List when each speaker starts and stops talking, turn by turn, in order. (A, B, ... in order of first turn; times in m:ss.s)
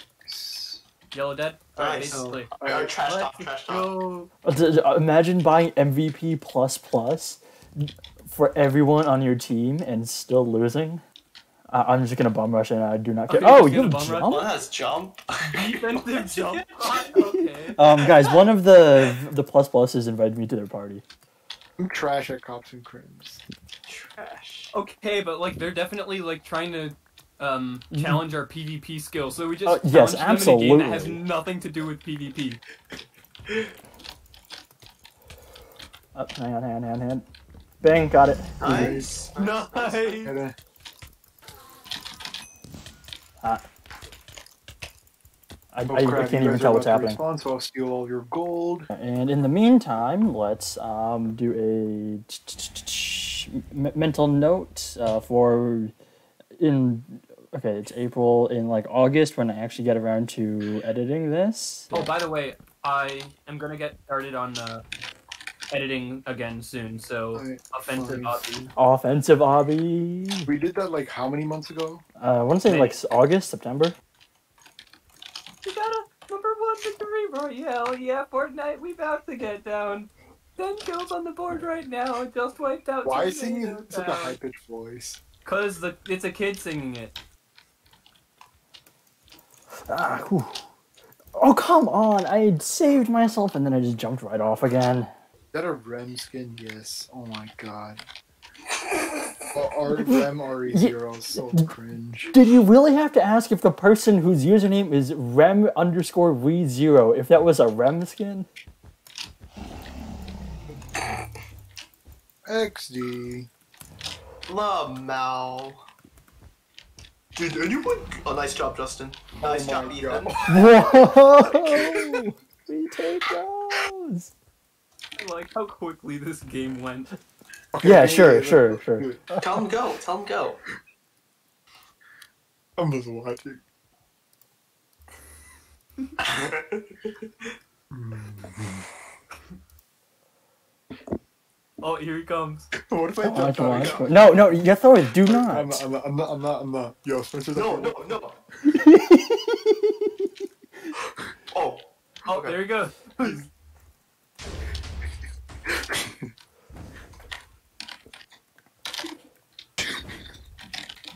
0:00.2-0:00.8 A
0:01.1-0:02.5 B
0:01.8-0:03.9 C
0:02.1-0:03.0 A
0:03.0-0:04.3 B
0:04.4-0:11.0 D
0:11.7-0:14.6 D
0:13.3-0:14.3 B
0:14.2-0:17.2 C
0:15.4-0:17.8 B
0:17.2-0:21.0 D
0:18.0-0:18.3 C
0:21.8-0:23.4 A
0:23.8-0:24.7 C
0:24.7-0:32.6 B
0:27.9-0:28.2 D
0:29.6-0:31.2 D
0:36.1-0:37.2 D
0:37.8-0:39.0 D
0:38.6-0:40.2 C
0:38.6-0:39.3 A
0:39.4-0:40.3 B
0:40.2-0:40.6 A
0:45.7-0:47.2 D
0:45.9-0:48.9 A
0:48.9-0:55.9 D
0:56.6-1:02.1 D
1:01.9-1:04.8 B
1:05.7-1:08.5 B
1:07.3-1:08.7 A
1:08.7-1:10.5 D
1:10.4-1:12.0 A
1:12.2-1:14.0 D
1:12.6-1:13.0 B
1:15.6-1:24.4 B
1:23.0-1:25.2 A
1:25.4-1:27.1 B
1:29.9-1:30.6 D
1:31.3-1:35.1 D
1:35.5-1:38.0 A
1:39.5-1:42.3 A
1:40.7-1:41.7 D
1:42.3-1:48.5 D
1:52.4-1:53.5 A
1:54.4-1:55.8 C
1:57.4-2:02.2 C
1:59.4-2:00.6 A
2:00.5-2:04.3 D
2:05.2-2:07.1 B
2:07.7-2:09.3 A
2:07.8-2:09.6 D
2:09.4-2:10.6 C
2:12.8-2:13.6 A
2:16.2-2:17.5 C
2:17.9-2:18.9 A
2:21.8-2:22.7 B
2:22.8-2:24.5 A
2:23.2-2:25.9 D
2:23.7-2:24.1 C
2:25.2-2:28.1 A
2:27.5-2:28.4 C
2:28.7-2:29.9 D
2:31.5-2:32.7 C
2:32.2-2:33.4 B
2:35.7-2:36.3 A